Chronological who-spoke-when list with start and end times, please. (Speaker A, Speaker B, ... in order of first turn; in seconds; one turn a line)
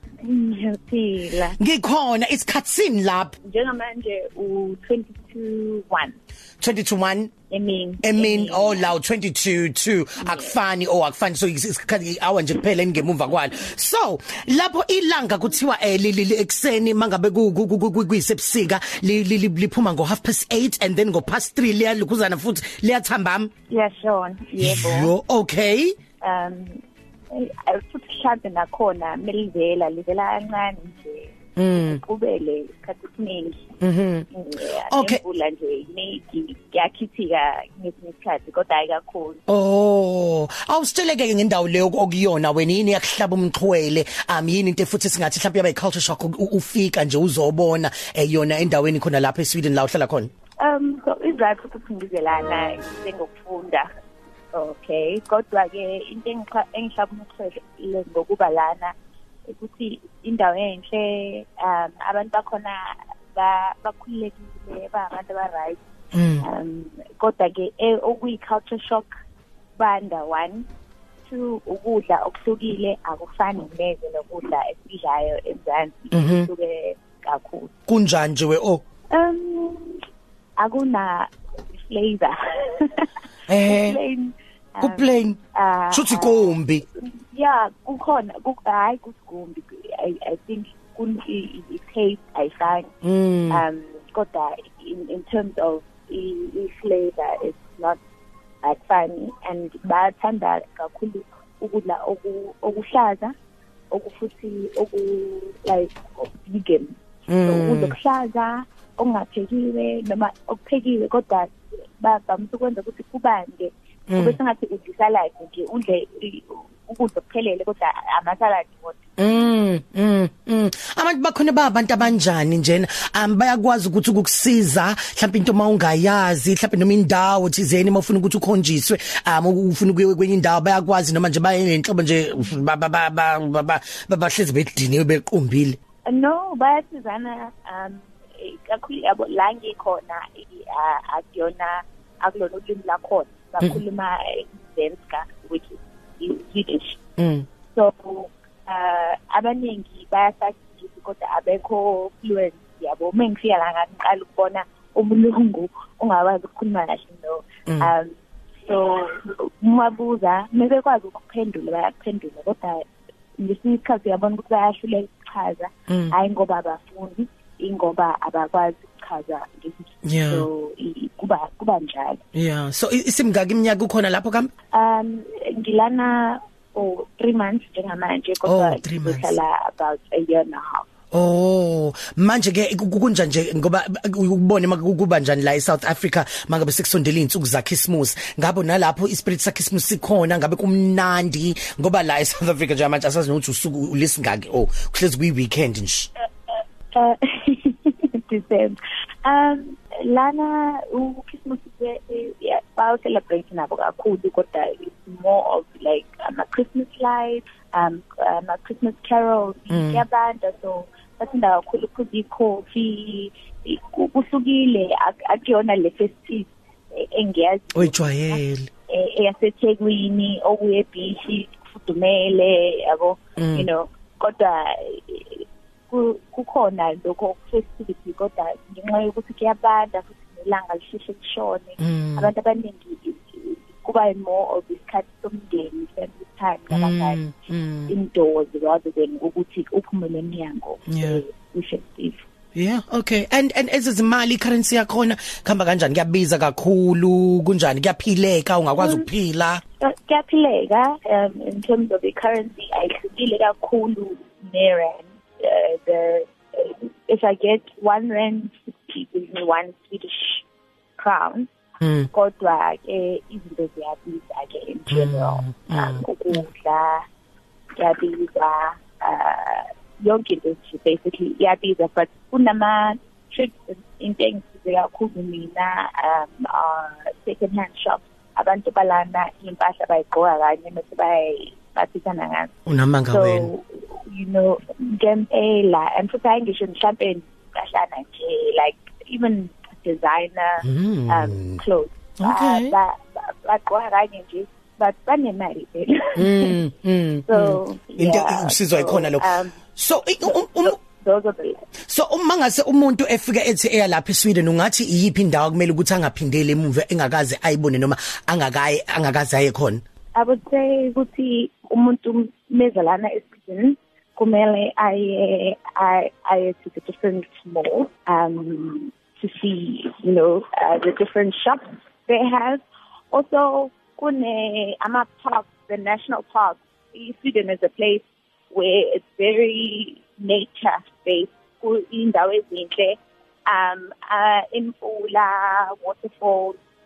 Speaker A: 0.2-1.6
Speaker B: 1.6-3.3
Speaker A: 3.4-6.2
Speaker B: 6.6-7.3
Speaker A: 7.5-8.9
Speaker B: 8.0-23.5
Speaker A: 10.2-10.6
Speaker A: 23.7-25.1
Speaker B: 24.6-25.9
Speaker A: 26.2-33.7
Speaker B: 31.6-32.0
Speaker B: 33.8-34.3
Speaker A: 34.3-39.4
Speaker B: 34.9-35.2
Speaker B: 39.5-50.3
Speaker A: 50.6-53.9
Speaker A: 54.5-58.9
Speaker A: 59.5-65.8
Speaker B: 66.1-66.4
Speaker A: 66.4-69.1
Speaker A: 69.8-70.7
Speaker A: 71.2-77.7
Speaker B: 76.1-76.5
Speaker B: 77.9-78.8
Speaker A: 79.1-80.0
Speaker A: 80.6-92.9
Speaker B: 83.5-84.0
Speaker B: 84.8-85.4
Speaker B: 85.9-86.8
Speaker B: 93.0-93.6
Speaker A: 93.5-98.0
Speaker A: 98.6-103.3
Speaker A: 103.9-119.0
Speaker B: 107.3-107.9
Speaker B: 114.1-114.4
Speaker B: 119.2-135.8
Speaker A: 136.1-147.0
Speaker B: 147.2-147.4
Speaker A: 147.7-158.1
Speaker B: 157.7-157.9
Speaker A: 158.6-162.8
Speaker A: 163.4-172.2
Speaker B: 170.0-170.5
Speaker B: 172.3-174.5
Speaker A: 174.7-180.8
Speaker B: 178.4-179.4
Speaker B: 181.1-196.1
Speaker A: 196.5-237.2
Speaker B: 209.7-210.0
Speaker B: 217.7-218.7
Speaker B: 223.4-223.7
Speaker B: 231.8-232.3
Speaker B: 236.7-237.9
Speaker A: 237.9-242.2
Speaker B: 240.9-241.2
Speaker B: 242.5-249.6
Speaker A: 248.8-249.1
Speaker A: 249.8-260.4
Speaker A: 261.0-261.5
Speaker B: 261.8-262.1
Speaker A: 262.1-267.0
Speaker B: 264.9-266.4
Speaker A: 267.8-282.5
Speaker B: 282.7-283.5
Speaker A: 283.1-296.5
Speaker B: 290.6-291.6
Speaker B: 292.2-292.7
Speaker B: 296.2-300.8
Speaker A: 297.3-299.6
Speaker A: 300.2-301.6
Speaker B: 301.9-309.8
Speaker A: 310.1-336.6